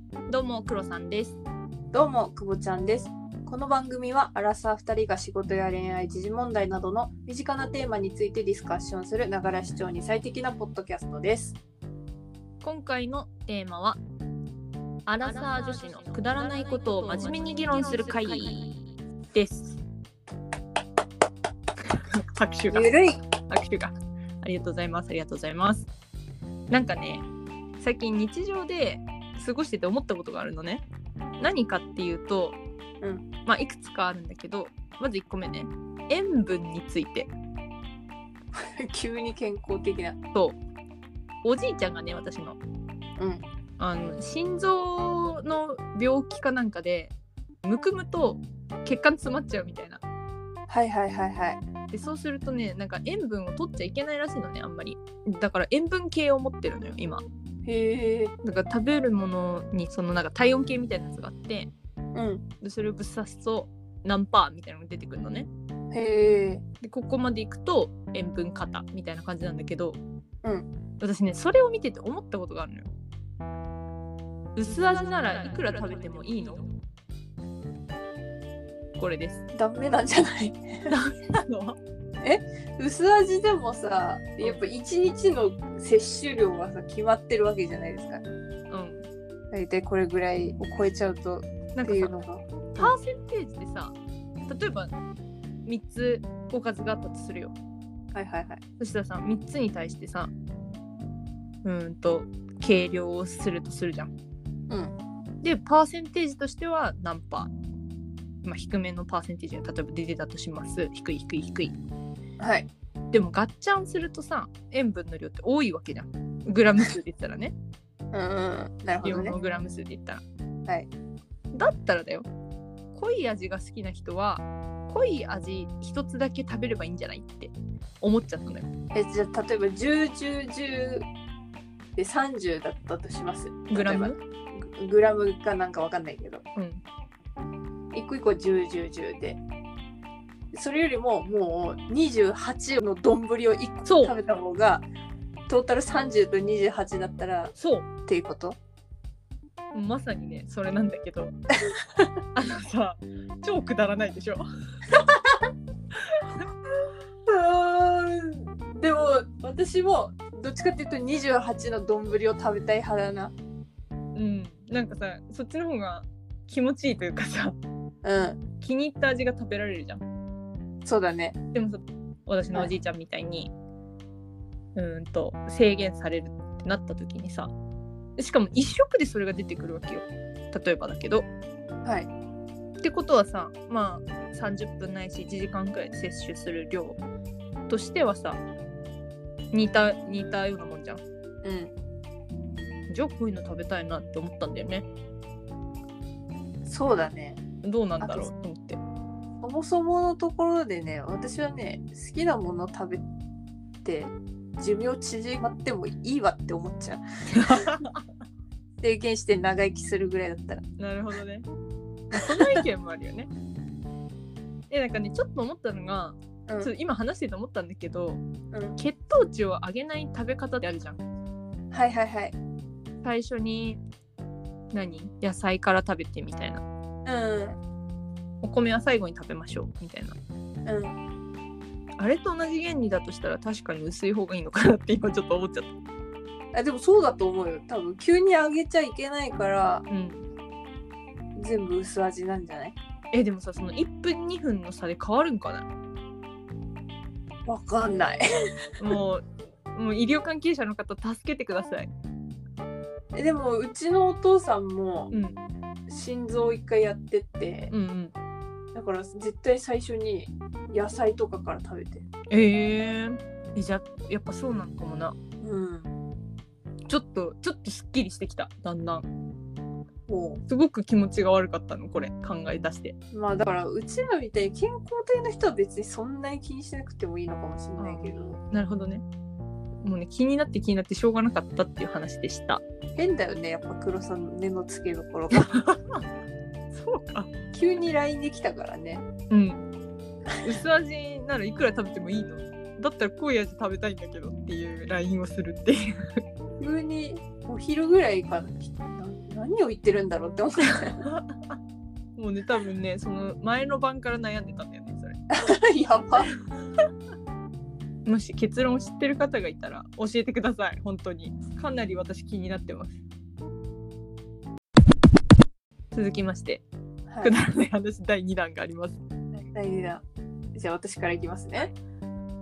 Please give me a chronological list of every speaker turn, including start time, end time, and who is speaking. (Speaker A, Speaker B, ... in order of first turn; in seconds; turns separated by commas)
Speaker A: 0.3-1.4, Speaker B: 1.9-11.6, Speaker A: 12.6-14.0, Speaker A: 15.1-18.7, Speaker A: 19.3-19.7, Speaker A: 21.9-22.9, Speaker B: 22.7-23.2, Speaker A: 23.5-25.9, Speaker A: 26.7-27.3, Speaker A: 27.8-30.8, Speaker A: 31.4-32.6, Speaker A: 33.5-37.3, Speaker B: 38.5-40.2, Speaker A: 40.3-40.6, Speaker A: 41.4-42.6, Speaker B: 43.2-43.4, Speaker A: 43.8-47.1, Speaker A: 47.6-50.0, Speaker B: 50.7-51.6, Speaker A: 51.9-57.2, Speaker B: 57.6-58.3, Speaker A: 58.4-61.7, Speaker B: 62.1-62.4, Speaker A: 62.6-65.5, Speaker B: 65.9-66.6, Speaker A: 66.8-70.0, Speaker A: 71.0-72.9, Speaker A: 74.6-76.7, Speaker A: 79.0-79.4, Speaker B: 79.5-80.9, Speaker A: 80.9-81.8, Speaker B: 82.2-88.2, Speaker A: 88.7-89.1, Speaker B: 89.5-92.9, Speaker A: 91.8-92.1, Speaker A: 92.8-94.0, Speaker A: 94.5-95.0, Speaker A: 95.7-97.5, Speaker B: 98.1-98.6, Speaker A: 98.8-100.3, Speaker A: 101.6-104.1, Speaker B: 104.7-105.0, Speaker A: 105.4-107.5, Speaker A: 108.4-111.8, Speaker B: 112.4-112.7, Speaker A: 113.1-117.5, Speaker B: 118.1-119.4, Speaker A: 119.0-120.2, Speaker A: 121.5-122.3, Speaker A: 122.9-128.7, Speaker B: 128.9-131.1, Speaker B: 132.0-136.4, Speaker A: 133.7-134.2, Speaker A: 136.6-136.8, Speaker B: 137.9-139.4, Speaker B: 140.5-144.9, Speaker A: 143.8-144.2, Speaker B: 145.5-147.5, Speaker A: 147.6-147.9, Speaker B: 148.1-148.6, Speaker A: 149.7-151.3, Speaker A: 152.3-154.5, Speaker B: 155.0-155.4, Speaker A: 156.1-156.4, Speaker B: 157.3-163.3, Speaker A: 164.2-167.6, Speaker B: 168.0-168.4, Speaker A: 168.6-170.0, Speaker B: 170.8-171.3, Speaker A: 171.5-173.5, Speaker A: 174.8-177.5, Speaker A: 178.2-181.3, Speaker A: 182.8-187.0, Speaker A: 187.7-188.4, Speaker A: 189.5-191.0, Speaker B: 191.4-191.7, Speaker A: 192.9-194.9, Speaker B: 196.7-197.4, Speaker A: 197.6-198.8, Speaker B: 198.0-198.3, Speaker B: 199.4-203.0, Speaker B: 203.8-207.7, Speaker A: 207.4-208.0, Speaker B: 208.8-210.6, Speaker A: 210.8-211.5, Speaker A: 212.1-213.3, Speaker B: 212.1-212.6, Speaker A: 214.7-218.2, Speaker B: 216.5-216.7, Speaker B: 218.5-218.8, Speaker A: 218.8-221.0, Speaker B: 221.7-222.3, Speaker A: 223.0-223.8, Speaker A: 224.7-226.6, Speaker B: 227.1-227.6, Speaker A: 228.4-230.2, Speaker B: 230.7-231.0, Speaker A: 232.0-235.7, Speaker B: 236.5-239.9, Speaker A: 239.9-240.3, Speaker B: 241.4-242.8, Speaker A: 243.1-245.7, Speaker B: 247.5-248.2, Speaker A: 248.8-251.9, Speaker B: 253.1-255.1, Speaker A: 255.1-255.4, Speaker B: 255.9-257.7, Speaker A: 257.7-258.1, Speaker B: 258.7-262.1, Speaker A: 262.3-265.2, Speaker B: 265.4-265.9, Speaker A: 266.9-269.1, Speaker B: 270.1-270.4, Speaker A: 270.5-272.9, Speaker B: 273.1-278.4, Speaker A: 277.8-279.0, Speaker A: 279.8-282.6, Speaker B: 283.0-285.5, Speaker A: 285.3-286.1, Speaker A: 286.7-287.3, Speaker B: 287.5-289.0, Speaker A: 289.3-289.6, Speaker A: 290.4-296.2, Speaker B: 296.6-301.1, Speaker A: 300.8-301.6, Speaker A: 302.2-305.2, Speaker B: 305.3-306.3, Speaker A: 308.1-313.0, Speaker A: 315.9-316.6, Speaker B: 317.1-317.4, Speaker A: 317.2-319.0, Speaker B: 319.5-320.0, Speaker B: 320.6-321.7